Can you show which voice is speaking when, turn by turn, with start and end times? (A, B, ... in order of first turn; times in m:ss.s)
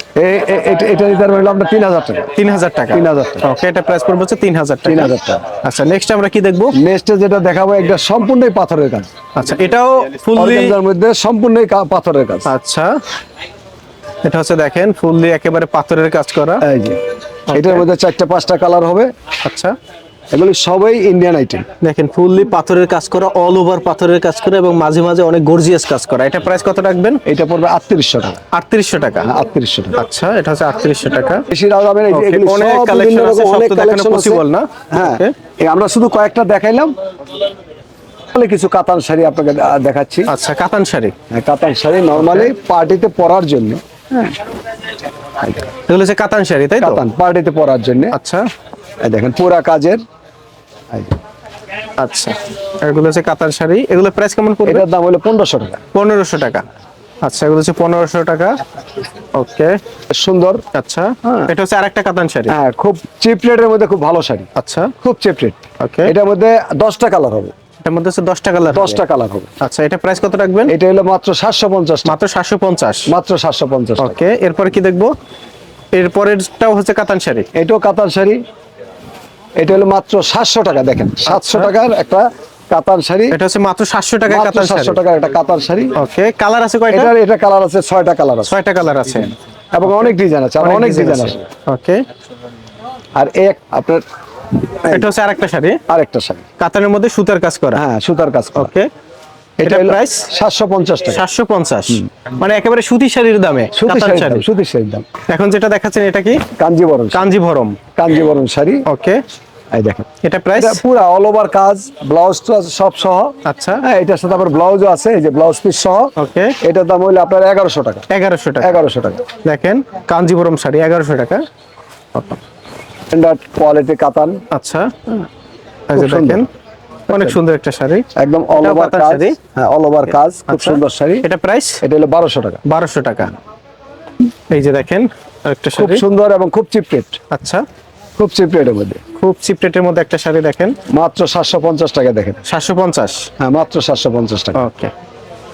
0:00.2-0:02.3 A
0:02.3-0:06.8 B
0:02.9-0:03.4 A
0:04.8-0:05.4 A
0:06.7-0:09.1 A
0:09.4-0:10.8 B
0:10.4-0:12.5 A
0:12.4-0:13.0 B
0:14.2-0:16.6 B
0:16.6-0:17.0 A
0:17.5-0:17.8 B
0:17.5-0:19.1 A
0:19.4-0:19.8 B
0:20.3-0:21.6 A
0:21.8-0:27.2 B
0:27.2-0:28.4 A
0:28.5-0:29.3 B
0:29.2-0:30.0 A
0:30.0-0:31.4 B
0:31.5-0:36.9 A
0:32.1-0:35.3 B
0:38.3-0:40.3 A
0:40.3-0:41.1 B
0:41.3-0:44.4 A
0:42.2-0:42.5 B
0:45.4-0:45.6 A
0:45.7-0:47.0 B
0:46.8-0:48.1 A
0:48.1-0:48.5 B
0:49.0-0:50.0 A
0:52.0-0:54.8 B
0:54.6-0:55.8 A
0:55.9-0:56.6 B
0:57.2-0:58.6 B
0:59.3-0:59.8 B
1:00.1-1:00.6 A
1:00.7-1:02.5 B
1:01.2-1:01.5 A
1:02.5-1:04.5 A
1:04.6-1:04.9 B
1:05.0-1:07.5 A
1:05.8-1:06.1 B
1:07.8-1:09.0 B
1:08.7-1:09.5 A
1:09.6-1:10.7 B
1:10.7-1:12.1 A
1:12.0-1:13.1 B
1:13.1-1:14.2 A
1:14.0-1:15.1 B
1:15.9-1:17.5 B
1:17.5-1:18.4 A
1:19.6-1:23.3 A
1:21.2-1:21.7 B
1:23.3-1:25.0 B
1:24.3-1:25.9 A
1:26.0-1:27.1 B
1:26.9-1:28.5 A
1:28.4-1:29.3 B
1:29.7-1:31.4 A
1:29.8-1:30.1 B
1:30.6-1:32.0 B
1:33.2-1:34.0 A
1:34.6-1:35.1 A
1:34.9-1:35.8 B
1:35.9-1:36.4 A
1:36.6-1:37.8 B
1:37.7-1:38.7 A
1:38.6-1:38.9 B
1:39.6-1:41.2 A
1:39.6-1:40.3 B
1:41.1-1:44.4 B
1:43.7-1:45.0 A
1:45.3-1:46.4 B
1:46.6-1:47.3 A
1:47.1-1:47.8 B
1:47.9-1:48.8 A
1:48.9-1:49.2 B
1:49.7-1:58.1 A
1:50.2-1:50.8 B
1:53.4-1:53.8 B
1:56.2-1:56.6 B
1:58.1-1:58.9 B
1:58.6-1:59.2 A
1:59.4-2:01.4 B
2:03.1-2:04.4 A
2:04.5-2:04.9 B
2:05.9-2:06.5 B
2:05.9-2:06.5 A
2:07.1-2:07.4 A
2:07.1-2:09.4 B
2:08.2-2:11.2 A
2:10.5-2:11.8 B
2:11.8-2:12.6 A
2:12.6-2:13.3 B
2:14.5-2:16.0 B
2:15.8-2:17.2 A
2:17.3-2:17.6 B
2:18.2-2:19.0 A
2:19.2-2:20.8 B
2:20.9-2:22.4 A
2:22.4-2:23.3 B
2:23.4-2:24.6 A
2:24.6-2:24.9 B